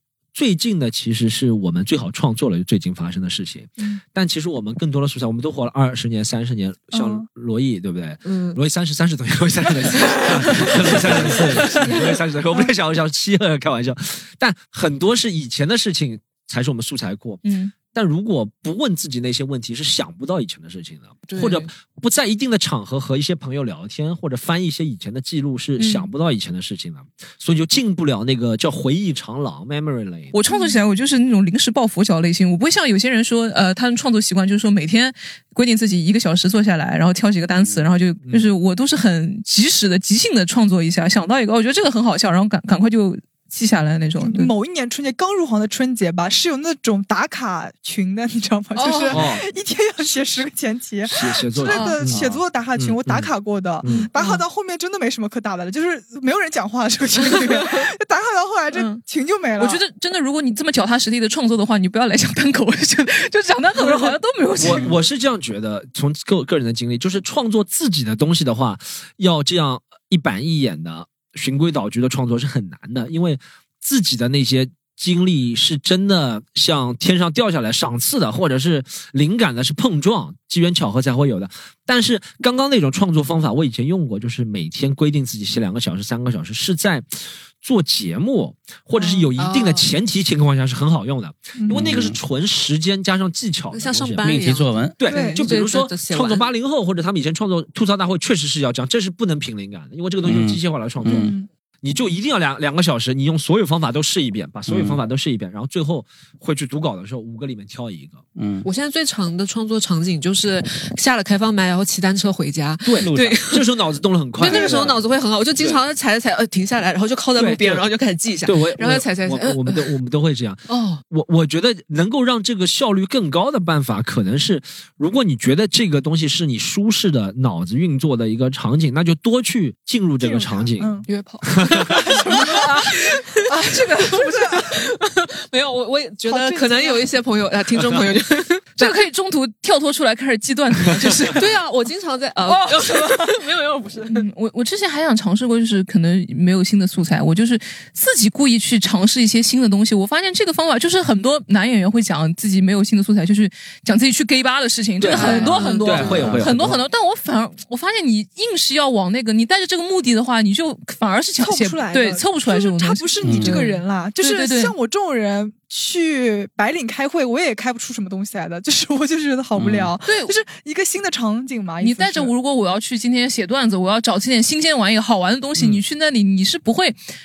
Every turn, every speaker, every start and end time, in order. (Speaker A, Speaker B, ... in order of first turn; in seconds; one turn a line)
Speaker A: 0.3-30.3
Speaker B: 6.9-7.2
Speaker C: 8.2-8.6
Speaker C: 11.7-12.0
Speaker D: 17.4-17.7
Speaker C: 21.3-21.7
Speaker D: 25.8-26.1
Speaker D: 30.3-44.5
Speaker B: 44.2-59.8
Speaker D: 48.8-49.2
Speaker A: 49.1-49.5
Speaker A: 51.0-53.3
Speaker D: 51.6-52.0
Speaker A: 53.8-54.1
Speaker D: 54.2-54.4
Speaker D: 58.7-59.0
Speaker D: 59.6-65.0
Speaker A: 64.6-108.2
Speaker B: 89.0-89.3
Speaker C: 89.4-89.9
Speaker B: 91.6-92.0
Speaker E: 91.7-92.2
Speaker C: 93.7-96.5
Speaker E: 94.2-95.0
Speaker B: 95.1-95.5
Speaker E: 100.2-101.3
Speaker B: 101.1-101.5
Speaker E: 104.7-105.0
Speaker E: 108.4-108.7
Speaker C: 108.6-113.7
Speaker A: 112.8-115.0
Speaker E: 113.0-113.4
Speaker C: 114.4-120.0
Speaker B: 114.5-114.8
Speaker A: 117.4-117.9
Speaker A: 118.5-132.1
Speaker C: 120.7-121.0
Speaker B: 130.2-131.1
Speaker C: 131.1-138.9
Speaker B: 131.9-132.9
Speaker D: 132.3-132.9
Speaker D: 133.5-134.7
Speaker B: 133.7-134.7
Speaker B: 136.3-137.1
Speaker D: 138.8-141.5
Speaker C: 141.3-144.2
Speaker D: 142.5-143.3
Speaker D: 144.1-164.8
Speaker A: 155.0-156.8
Speaker C: 155.1-156.3
Speaker E: 156.0-156.5
Speaker B: 161.4-172.3
Speaker E: 163.2-163.6
Speaker A: 169.6-169.9
Speaker D: 170.1-170.4
Speaker D: 171.8-177.0
Speaker A: 175.6-175.8